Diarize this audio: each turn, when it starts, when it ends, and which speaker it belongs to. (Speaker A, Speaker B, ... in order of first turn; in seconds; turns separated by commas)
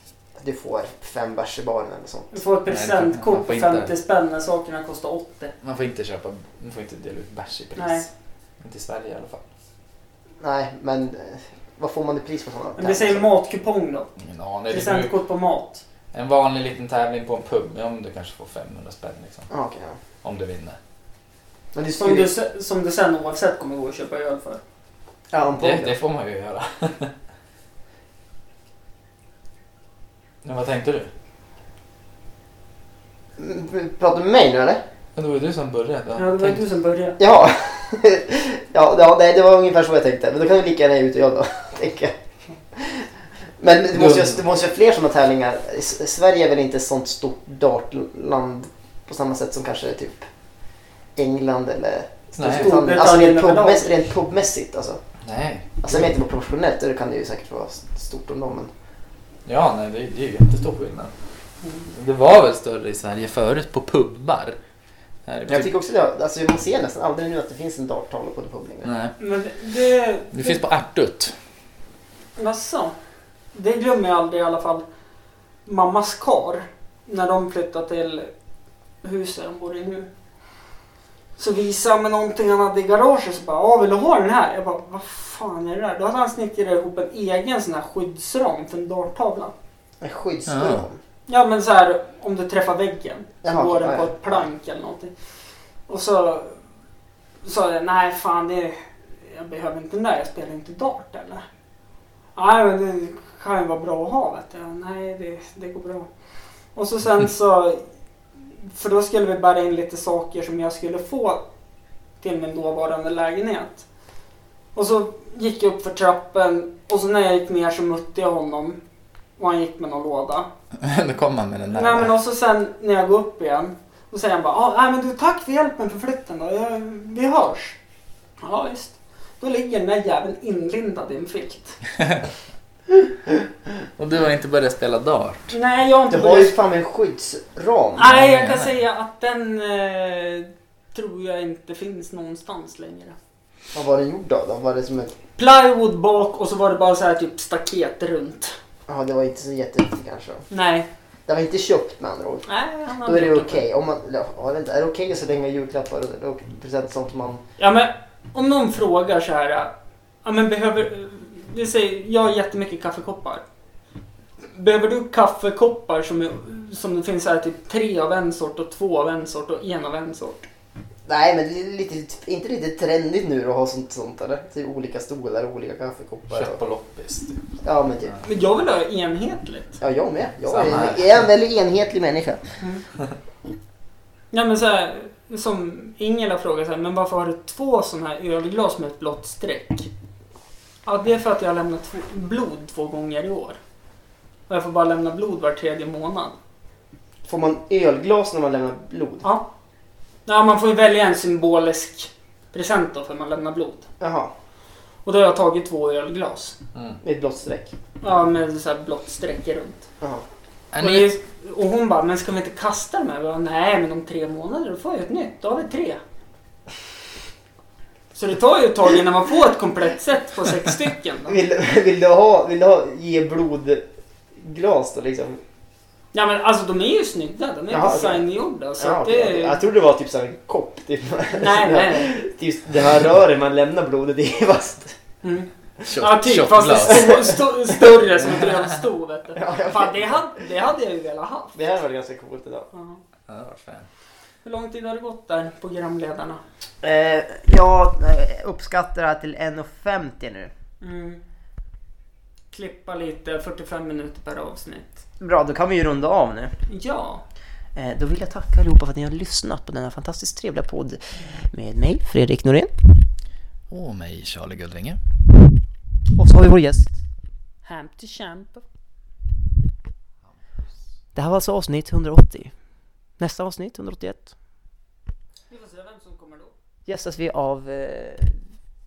Speaker A: 0.4-2.3, Speaker B: 2.3-5.5, Speaker C: 2.6-3.9, Speaker C: 5.6-8.1, Speaker B: 7.8-8.0, Speaker C: 8.6-9.4, Speaker A: 10.4-13.3, Speaker B: 12.8-14.1, Speaker C: 14.2-15.1, Speaker B: 14.7-15.8, Speaker C: 16.1-19.5, Speaker A: 19.5-20.0, Speaker C: 20.2-20.8, Speaker A: 21.7-22.3, Speaker B: 22.0-24.6, Speaker A: 25.3-25.9, Speaker C: 25.6-27.1, Speaker C: 30.4-31.1, Speaker A: 33.4-34.8, Speaker C: 35.1-36.6, Speaker B: 36.1-37.2, Speaker A: 37.2-42.1, Speaker A: 42.7-43.1, Speaker A: 43.6-50.3, Speaker C: 43.9-44.4, Speaker A: 51.1-55.0, Speaker C: 52.4-52.7, Speaker B: 52.4-53.9, Speaker C: 55.2-55.8, Speaker A: 55.8-58.7, Speaker C: 59.4-61.1, Speaker C: 61.9-64.6, Speaker C: 65.2-65.7, Speaker A: 65.5-68.9, Speaker C: 68.8-69.2, Speaker B: 69.2-70.6, Speaker C: 70.3-71.3, Speaker B: 72.3-72.9, Speaker B: 73.5-74.8, Speaker B: 75.7-78.3, Speaker B: 79.0-80.1, Speaker B: 81.4-89.5, Speaker A: 90.0-91.0, Speaker C: 90.5-90.8, Speaker B: 91.3-95.1, Speaker A: 93.4-94.3, Speaker B: 95.9-96.6, Speaker B: 97.4-101.4, Speaker B: 102.3-106.1, Speaker B: 106.7-107.8, Speaker B: 108.6-111.4, Speaker B: 112.2-113.8, Speaker B: 114.7-118.8, Speaker B: 119.4-120.5, Speaker C: 120.8-122.1, Speaker B: 121.7-127.8, Speaker B: 128.4-131.8, Speaker C: 134.0-135.5, Speaker B: 135.5-136.5, Speaker A: 136.1-138.1, Speaker B: 137.9-143.2, Speaker C: 138.0-138.8, Speaker A: 143.7-145.2, Speaker B: 145.4-148.6, Speaker A: 148.9-150.4, Speaker B: 150.5-150.9, Speaker A: 151.3-152.4, Speaker B: 152.4-153.6, Speaker A: 153.0-157.4, Speaker B: 157.6-159.7, Speaker B: 160.2-163.4, Speaker B: 164.5-170.5, Speaker A: 171.1-176.6, Speaker C: 176.3-177.5, Speaker A: 177.6-178.2, Speaker B: 178.2-179.8, Speaker A: 179.8-182.4, Speaker C: 180.4-181.3, Speaker B: 184.3-189.9, Speaker B: 190.8-193.6, Speaker B: 194.5-196.3, Speaker A: 197.2-199.2, Speaker B: 200.2-203.9, Speaker A: 204.0-204.3, Speaker B: 205.0-206.6, Speaker C: 206.7-207.0, Speaker A: 207.0-207.7, Speaker B: 208.0-209.8, Speaker C: 210.7-211.1, Speaker B: 210.8-216.0, Speaker B: 218.1-221.4, Speaker A: 221.3-223.8, Speaker A: 224.3-225.4, Speaker B: 226.1-229.6, Speaker A: 227.7-228.2, Speaker A: 228.8-235.0, Speaker B: 231.3-232.2, Speaker B: 235.2-241.6, Speaker C: 235.8-237.3, Speaker C: 238.1-238.8, Speaker A: 239.3-240.3, Speaker A: 241.5-242.7, Speaker B: 242.7-243.0, Speaker C: 243.3-243.9, Speaker B: 244.4-246.4, Speaker A: 246.8-250.5, Speaker B: 250.8-251.2, Speaker B: 252.5-255.0, Speaker A: 255.2-256.5, Speaker B: 256.7-257.2, Speaker A: 257.7-262.7, Speaker C: 263.7-265.0, Speaker A: 266.1-266.9, Speaker B: 267.6-268.6, Speaker A: 271.1-272.5, Speaker A: 273.2-274.3, Speaker B: 275.5-276.5, Speaker A: 276.9-278.4